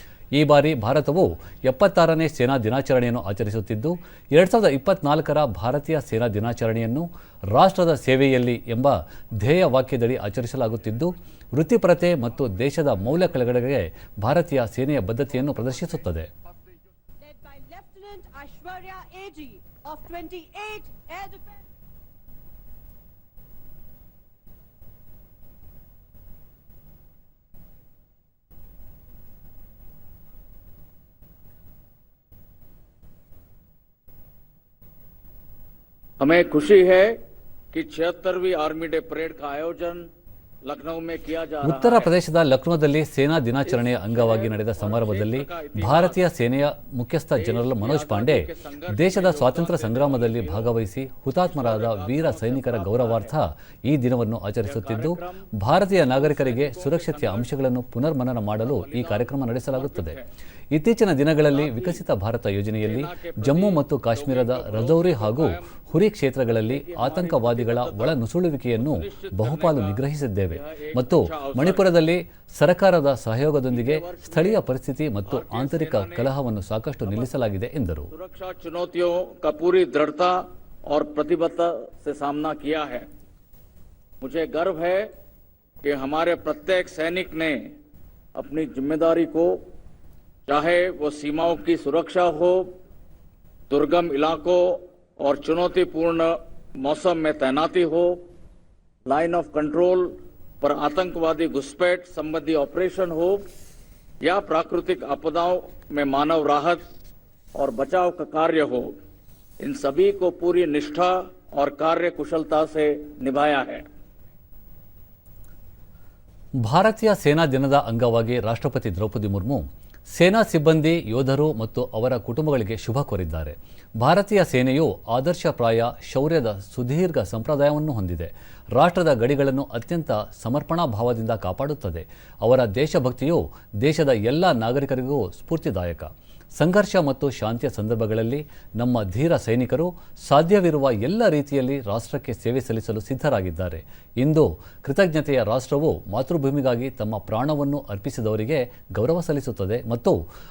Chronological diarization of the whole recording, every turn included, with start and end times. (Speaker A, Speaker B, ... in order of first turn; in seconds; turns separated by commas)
Speaker A: 0.3-16.3, Speaker B: 17.2-21.7, Speaker C: 36.2-37.2, Speaker C: 37.7-40.1, Speaker C: 40.6-42.1, Speaker A: 41.6-60.2, Speaker C: 43.7-46.2, Speaker C: 47.4-50.7, Speaker C: 51.4-53.4, Speaker C: 54.6-57.5, Speaker C: 58.6-60.3, Speaker A: 60.7-78.1, Speaker C: 61.5-62.0, Speaker C: 62.8-65.8, Speaker C: 66.5-68.2, Speaker C: 68.8-71.9, Speaker C: 73.7-74.6, Speaker C: 75.3-76.3, Speaker C: 77.1-77.5, Speaker C: 78.1-83.1, Speaker C: 84.2-85.1, Speaker C: 85.8-87.8, Speaker C: 88.3-89.6, Speaker C: 90.5-92.8, Speaker C: 93.7-98.2, Speaker C: 99.1-103.4, Speaker C: 104.2-106.8, Speaker C: 107.5-108.9, Speaker C: 109.6-113.8, Speaker A: 116.6-150.2